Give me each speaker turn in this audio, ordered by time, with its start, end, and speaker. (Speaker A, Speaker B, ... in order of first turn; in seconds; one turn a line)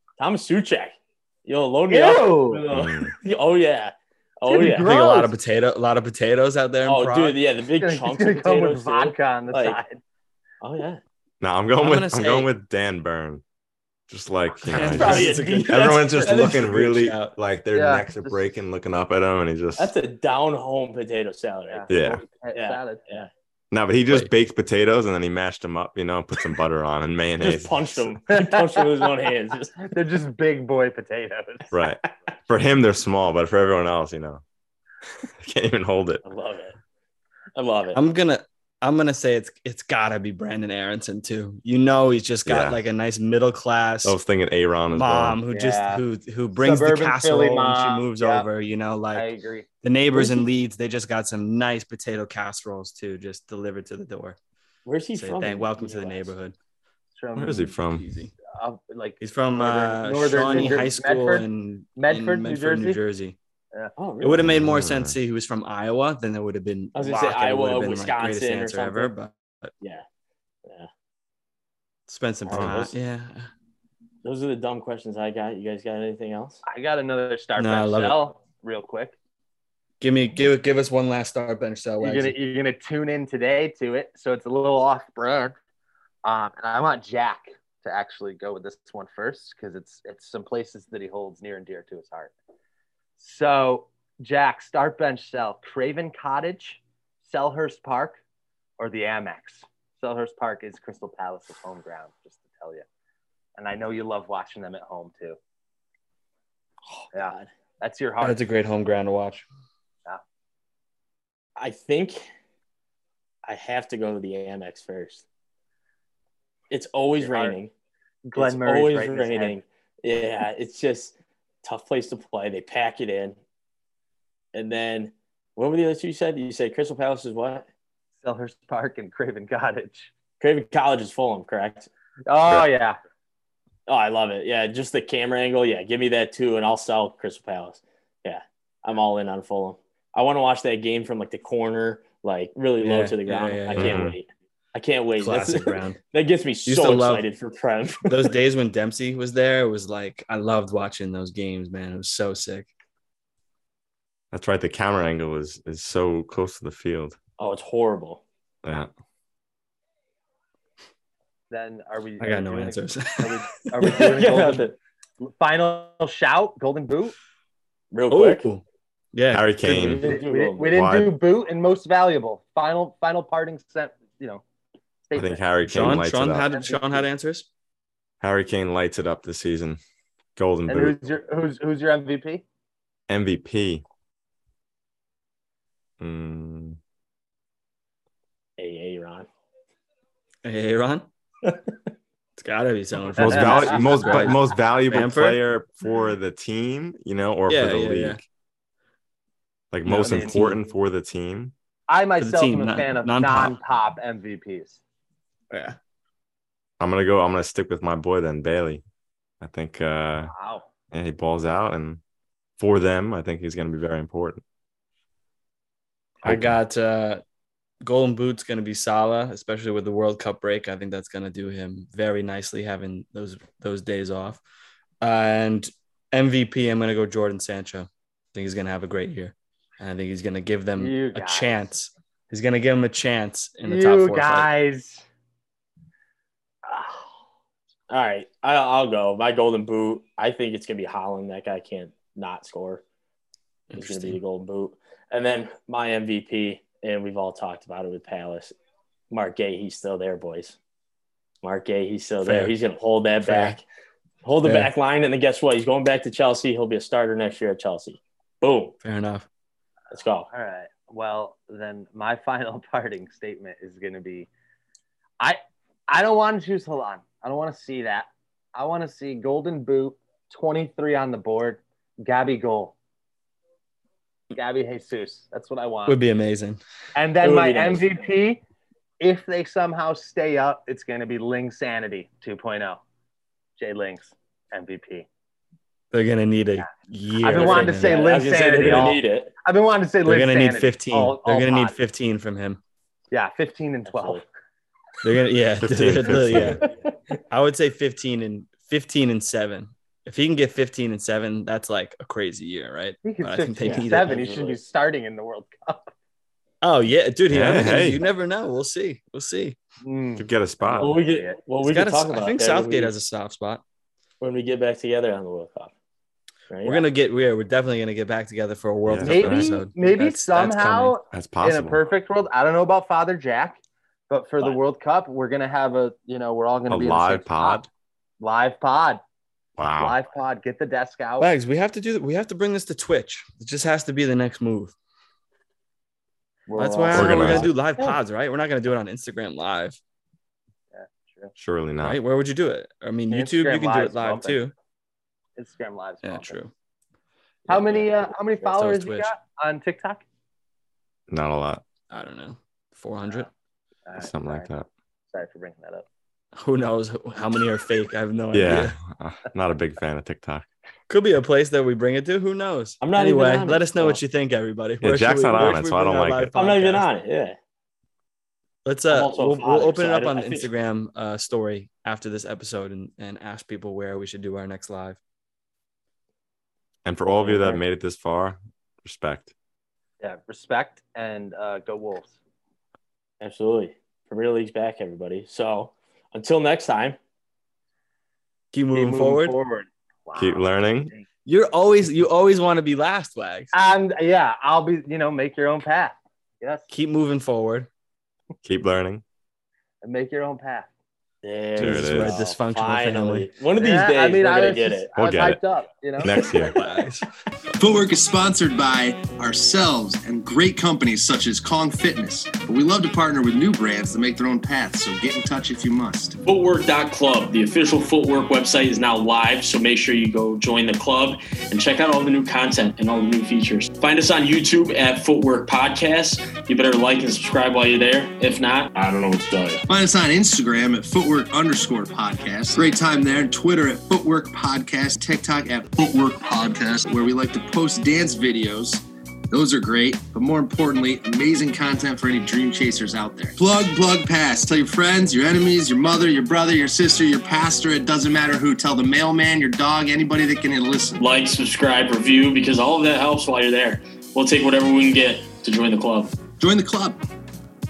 Speaker A: 0.2-4.9
Speaker B: 1.9-2.6
Speaker C: 2.7-3.1
Speaker B: 4.5-5.3
Speaker D: 4.7-7.4
Speaker A: 6.8-9.8
Speaker B: 7.8-10.0
Speaker A: 10.6-11.0
Speaker C: 11.4-13.4
Speaker D: 11.8-12.5
Speaker C: 14.1-19.9
Speaker A: 14.7-16.8
Speaker D: 14.7-17.3
Speaker B: 17.7-18.4
Speaker A: 19.8-21.9
Speaker B: 21.7-23.2
Speaker C: 21.9-22.2
Speaker A: 22.5-23.3
Speaker C: 23.7-28.1
Speaker A: 27.4-29.8
Speaker B: 28.3-28.9
Speaker B: 29.8-31.7
Speaker C: 31.7-34.4
Speaker C: 35.4-36.2
Speaker A: 36.2-36.8
Speaker A: 37.5-38.0
Speaker D: 37.9-44.2
Speaker C: 42.5-42.8
Speaker C: 44.0-45.4
Speaker D: 44.9-49.3
Speaker B: 45.5-46.0
Speaker B: 46.5-48.5
Speaker B: 49.1-50.4
Speaker D: 49.8-54.4
Speaker A: 54.8-56.3
Speaker D: 55.1-56.5
Speaker B: 57.1-57.8
Speaker C: 57.4-58.0
Speaker D: 57.9-58.3
Speaker B: 58.5-63.0
Speaker D: 59.2-63.4
Speaker A: 60.4-60.7
Speaker A: 64.0-64.5
Speaker D: 64.2-69.7
Speaker C: 64.4-65.2
Speaker A: 66.9-69.1
Speaker A: 70.6-70.9
Speaker D: 72.1-73.5
Speaker A: 72.4-72.9
Speaker C: 72.5-72.9
Speaker A: 74.2-76.6
Speaker B: 76.7-79.2
Speaker D: 77.6-78.2
Speaker D: 80.0-82.3
Speaker B: 82.0-85.5
Speaker B: 86.2-92.3
Speaker B: 93.2-98.2
Speaker B: 98.8-102.8
Speaker B: 103.6-105.4
Speaker A: 106.9-107.5
Speaker B: 107.1-108.4
Speaker D: 108.2-109.5
Speaker A: 111.6-112.2
Speaker A: 113.4-115.2
Speaker A: 116.7-117.7
Speaker B: 117.2-117.5
Speaker B: 118.2-119.5
Speaker A: 118.3-123.4
Speaker A: 124.5-127.7
Speaker B: 128.2-130.1
Speaker A: 130.4-131.9
Speaker B: 132.3-133.0
Speaker A: 133.9-148.3
Speaker D: 142.8-144.1
Speaker C: 143.8-144.2
Speaker D: 145.2-146.0
Speaker D: 146.7-147.2
Speaker D: 148.1-152.7
Speaker C: 154.3-157.2
Speaker A: 157.4-158.2
Speaker C: 158.6-158.9
Speaker B: 161.5-164.7
Speaker D: 162.2-164.0
Speaker A: 163.8-164.8
Speaker B: 165.2-167.1
Speaker A: 167.9-168.5
Speaker D: 168.1-170.0
Speaker C: 169.3-170.1
Speaker A: 169.6-170.7
Speaker B: 170.0-174.4
Speaker C: 170.7-171.1
Speaker B: 175.1-175.4
Speaker C: 175.1-176.5
Speaker D: 175.7-177.5
Speaker B: 176.4-177.0
Speaker C: 178.2-179.8
Speaker C: 180.4-181.0
Speaker B: 180.7-182.4
Speaker C: 183.1-183.8
Speaker C: 186.0-186.8
Speaker A: 188.6-189.3
Speaker D: 190.4-191.1
Speaker A: 191.4-191.9
Speaker D: 192.4-195.4
Speaker B: 193.2-194.3
Speaker C: 193.2-198.2
Speaker D: 197.5-198.2
Speaker C: 199.7-201.5
Speaker D: 199.8-200.6
Speaker B: 200.0-200.4
Speaker B: 201.9-204.8
Speaker D: 202.2-203.6
Speaker D: 205.5-205.8
Speaker C: 206.8-208.8
Speaker C: 209.4-210.3
Speaker B: 210.3-210.7
Speaker C: 210.9-212.0
Speaker C: 212.6-214.4
Speaker D: 216.2-217.2
Speaker C: 216.2-216.5
Speaker D: 217.8-224.4
Speaker D: 225.0-234.5
Speaker B: 230.8-231.6
Speaker B: 233.7-235.0
Speaker B: 236.7-237.0
Speaker A: 237.9-242.8
Speaker D: 243.7-244.2
Speaker A: 243.7-248.5
Speaker A: 249.1-250.6
Speaker A: 251.4-253.6
Speaker D: 252.2-252.5
Speaker D: 253.2-253.6
Speaker A: 254.2-258.7
Speaker D: 254.4-254.7
Speaker D: 258.8-259.3
Speaker A: 259.9-260.3
Speaker B: 260.3-264.3
Speaker B: 265.2-272.7
Speaker B: 274.3-276.0
Speaker D: 275.9-276.6
Speaker B: 276.9-278.4
Speaker A: 277.2-277.9
Speaker B: 279.0-282.8
Speaker B: 283.6-285.1
Speaker D: 285.9-288.0
Speaker B: 287.2-291.8
Speaker A: 287.3-289.3
Speaker C: 288.6-288.9
Speaker D: 290.0-292.6
Speaker B: 293.1-294.2
Speaker A: 293.9-294.2
Speaker D: 295.0-296.6
Speaker C: 295.6-296.6
Speaker D: 297.3-304.2
Speaker B: 303.0-305.9
Speaker A: 303.6-304.6
Speaker D: 306.6-309.6
Speaker C: 307.3-308.0
Speaker B: 309.8-311.4
Speaker C: 310.2-311.0
Speaker A: 310.7-312.9
Speaker D: 311.6-313.6
Speaker A: 314.2-315.7
Speaker A: 316.5-316.8
Speaker D: 316.6-321.0
Speaker C: 318.9-319.6
Speaker B: 319.0-323.6
Speaker C: 321.1-321.8
Speaker B: 324.1-327.6
Speaker C: 326.7-327.7
Speaker B: 328.2-329.0
Speaker C: 329.6-329.9
Speaker B: 329.8-331.3
Speaker D: 331.2-334.7
Speaker B: 336.5-337.5
Speaker D: 336.6-339.8
Speaker C: 336.9-337.5
Speaker B: 340.7-341.3
Speaker C: 341.4-342.0
Speaker D: 341.8-344.5
Speaker B: 343.1-344.4
Speaker B: 345.4-346.4
Speaker D: 346.0-346.5
Speaker D: 347.5-347.9
Speaker B: 347.5-350.0
Speaker D: 348.4-349.1
Speaker C: 351.1-351.6
Speaker D: 351.9-353.3
Speaker B: 353.9-354.5
Speaker C: 354.0-354.7
Speaker B: 355.1-355.9
Speaker D: 356.4-358.7
Speaker C: 358.3-360.4
Speaker D: 360.9-366.9
Speaker A: 362.8-364.0
Speaker C: 364.8-366.3
Speaker A: 366.3-367.4
Speaker D: 368.6-375.0
Speaker A: 368.9-370.5
Speaker C: 376.8-379.3
Speaker A: 377.2-377.6
Speaker B: 380.0-382.1
Speaker A: 383.2-387.0
Speaker D: 388.5-389.4
Speaker B: 388.7-391.0
Speaker C: 390.2-390.9
Speaker D: 391.2-393.5
Speaker B: 393.5-396.7
Speaker D: 396.7-397.7
Speaker C: 398.4-399.0
Speaker B: 399.8-400.7
Speaker A: 401.2-404.9
Speaker D: 401.6-403.3
Speaker C: 401.6-402.2
Speaker B: 403.6-406.3
Speaker C: 404.9-405.4
Speaker C: 406.0-406.5
Speaker D: 406.4-407.1
Speaker E: 407.6-416.2
Speaker A: 416.2-429.6
Speaker E: 429.7-451.0
Speaker A: 451.0-456.2
Speaker E: 456.4-457.0